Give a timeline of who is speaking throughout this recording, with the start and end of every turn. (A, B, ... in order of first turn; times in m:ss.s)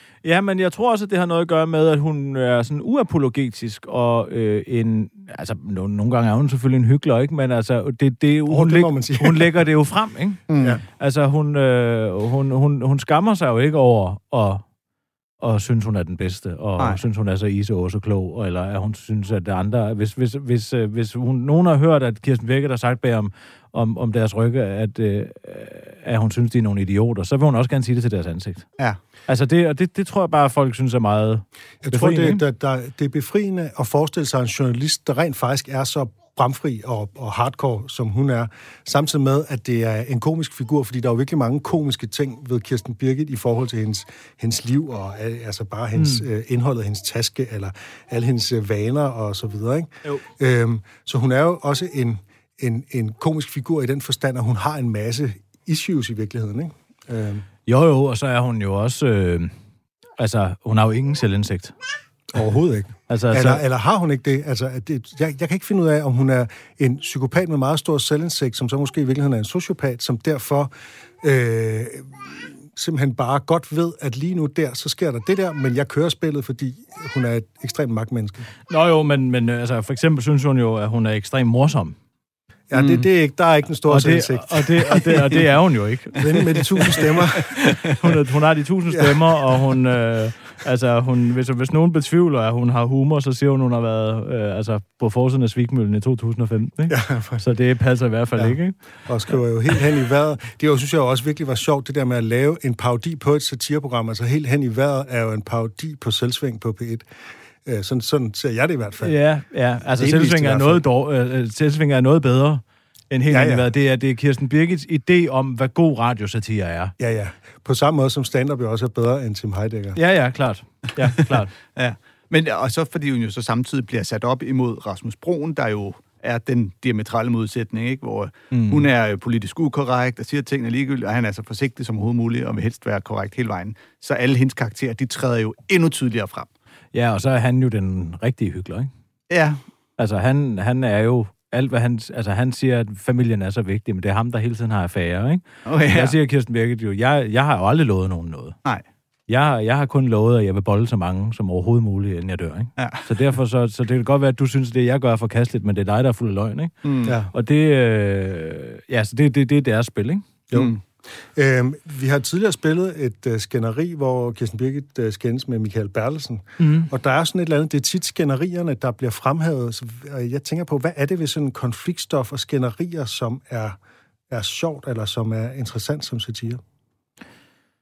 0:00.2-0:10.4 A
0:08.5-0:09.5 B
0:10.5-0:10.8 C
0:11.0-0:14.6 A
0:15.4-0:28.7 A
0:29.3-0:32.4 A
0:31.8-0:57.4 B
0:46.0-0:46.2 A
0:57.6-0:59.5 A
1:00.2-1:01.7 A
1:02.3-1:18.5 B
1:03.1-1:03.6 A
1:18.7-1:22.0 A
1:22.7-1:25.2 B
1:22.7-1:23.1 C
1:23.9-1:27.0 A
1:26.2-1:27.8 B
1:27.8-1:38.8 A
1:28.9-1:29.2 B
1:36.9-1:37.4 B
1:38.4-1:47.0 B
1:47.6-1:49.2 B
1:49.0-1:56.9 A
1:50.0-1:50.8 B
1:53.3-1:53.7 B
1:57.0-2:00.0 B
1:59.9-2:01.5 A
2:01.8-2:16.5 C
2:08.5-2:08.9 A
2:16.9-2:18.9 A
2:19.3-2:19.6 C
2:20.0-2:28.6 A
2:25.6-2:26.2 C
2:29.3-2:36.7 A
2:32.8-2:33.0 C
2:36.8-2:37.1 C
2:37.0-2:37.3 B
2:37.3-2:40.3 A
2:40.5-2:40.8 C
2:41.2-2:53.8 B
2:46.6-2:46.9 A
2:54.3-2:56.6 B